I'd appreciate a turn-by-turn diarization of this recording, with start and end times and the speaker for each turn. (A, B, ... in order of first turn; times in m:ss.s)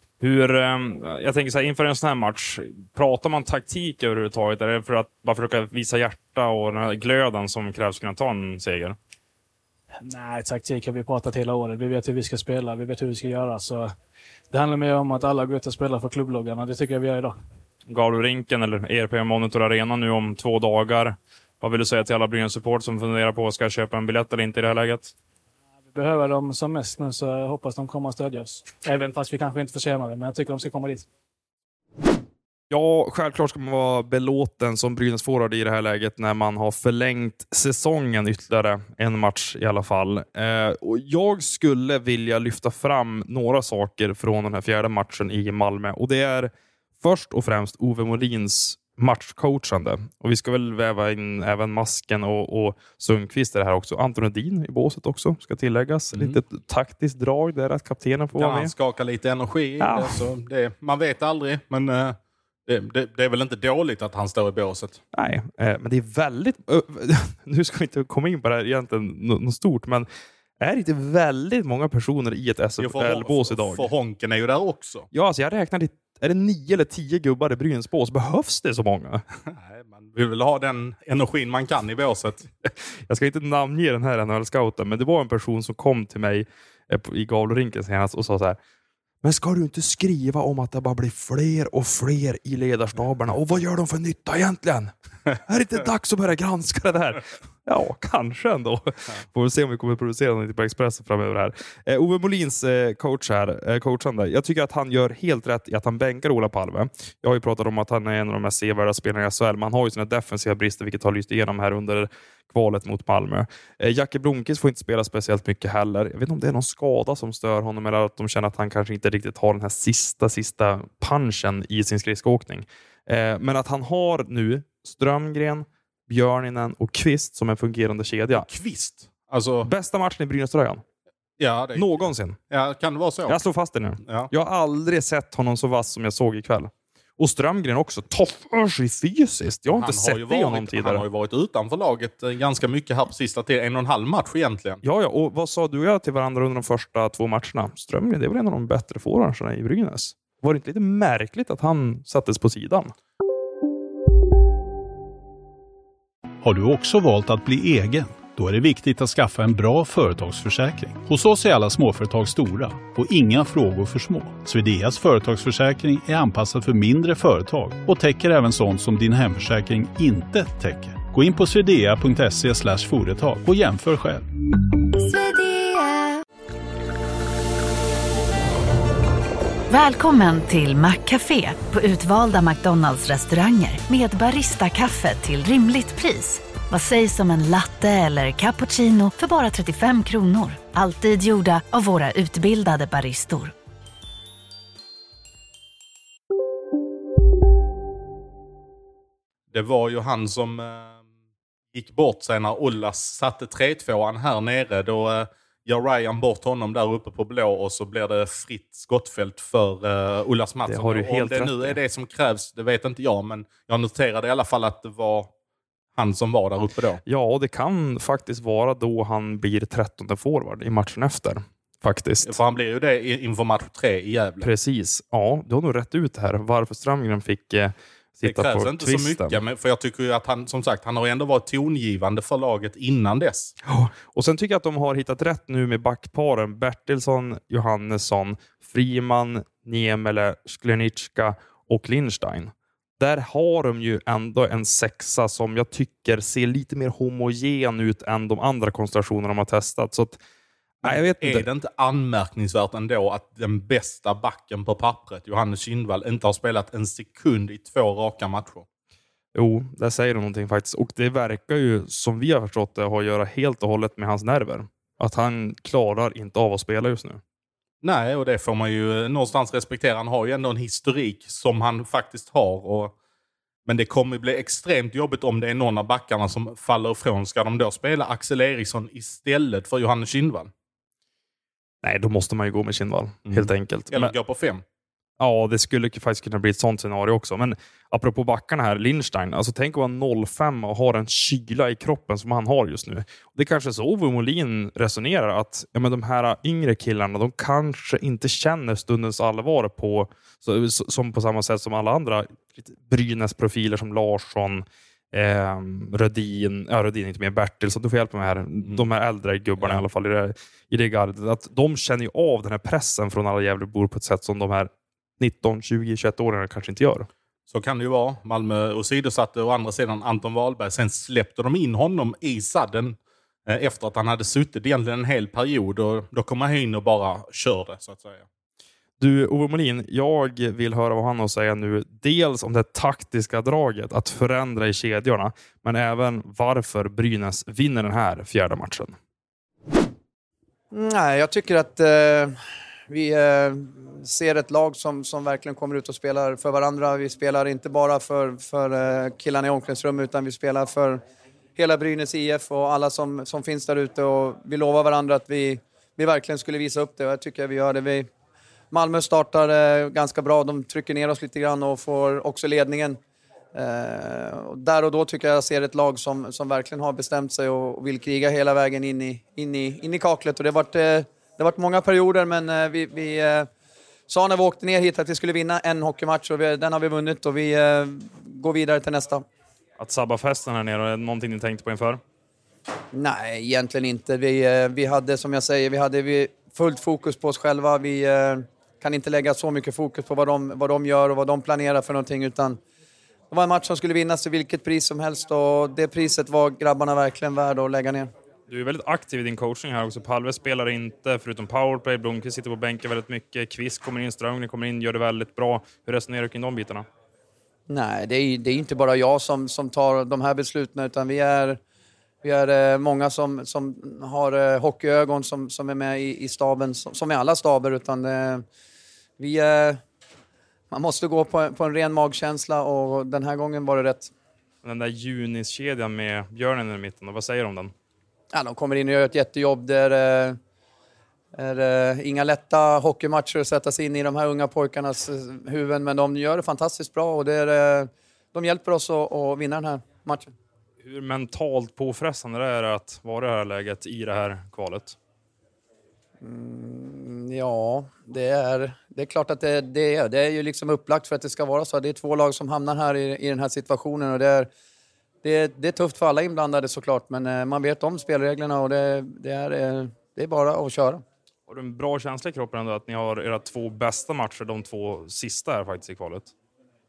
0:00.2-0:09.0 A
0:10.0-0:13.9 B
0:14.5-0:17.4 B
0:17.9-0:25.1 A
0:25.9-0:31.1 B
0:32.7-0:58.7 A
0:56.1-0:56.4 C
0:58.4-1:05.0 C
0:59.8-1:00.2 A
1:05.1-1:10.1 A
1:10.6-1:13.9 A
1:12.8-1:15.1 C
1:15.1-1:19.2 A
1:19.5-1:22.5 C
1:23.1-1:28.6 A
1:29.2-2:08.5 A
2:08.3-2:09.7 C
2:09.6-2:10.8 A
2:11.4-2:11.9 C
2:11.8-2:12.4 A
2:12.5-2:13.4 C
2:13.3-2:21.1 A
2:14.0-2:14.3 C
2:19.7-2:24.8 C
2:24.8-2:32.9 A
2:36.4-2:54.3 D
2:55.0-2:55.7 E
2:59.7-3:13.5 E
3:19.5-3:21.0 C
3:21.7-3:35.3 C
3:30.7-3:31.8 A
3:36.0-3:37.0 C
3:37.1-3:42.4 A
3:42.2-3:44.5 C
3:44.4-3:49.4 A
3:48.3-3:53.5 C
3:53.6-4:10.2 A
4:10.8-4:11.5 A
4:10.8-4:18.6 C
4:19.4-4:27.2 A
4:27.8-4:32.9 C
4:33.7-4:40.5 C
4:41.8-4:44.1 A
4:43.3-4:44.6 C
4:45.2-5:17.1 A
5:17.5-5:28.2 C
5:29.0-5:39.0 A
5:40.7-5:42.4 F
5:42.9-5:51.0 F
5:51.6-5:58.1 F
5:58.7-6:03.0 F
6:03.5-6:13.5 F
6:14.1-6:19.2 F
6:19.8-6:22.0 A
6:22.9-6:32.6 F
6:33.3-6:38.1 F
6:38.5-6:46.8 A
6:47.7-6:51.6 F
6:52.2-6:58.4 F
6:59.2-6:59.8 F
7:00.7-7:04.1 F
7:04.6-7:07.7 A
7:08.3-7:10.4 F
7:11.4-7:20.3 F
7:20.8-7:25.0 A
7:26.2-7:34.5 F
7:35.2-7:41.0 F
7:41.5-7:46.3 A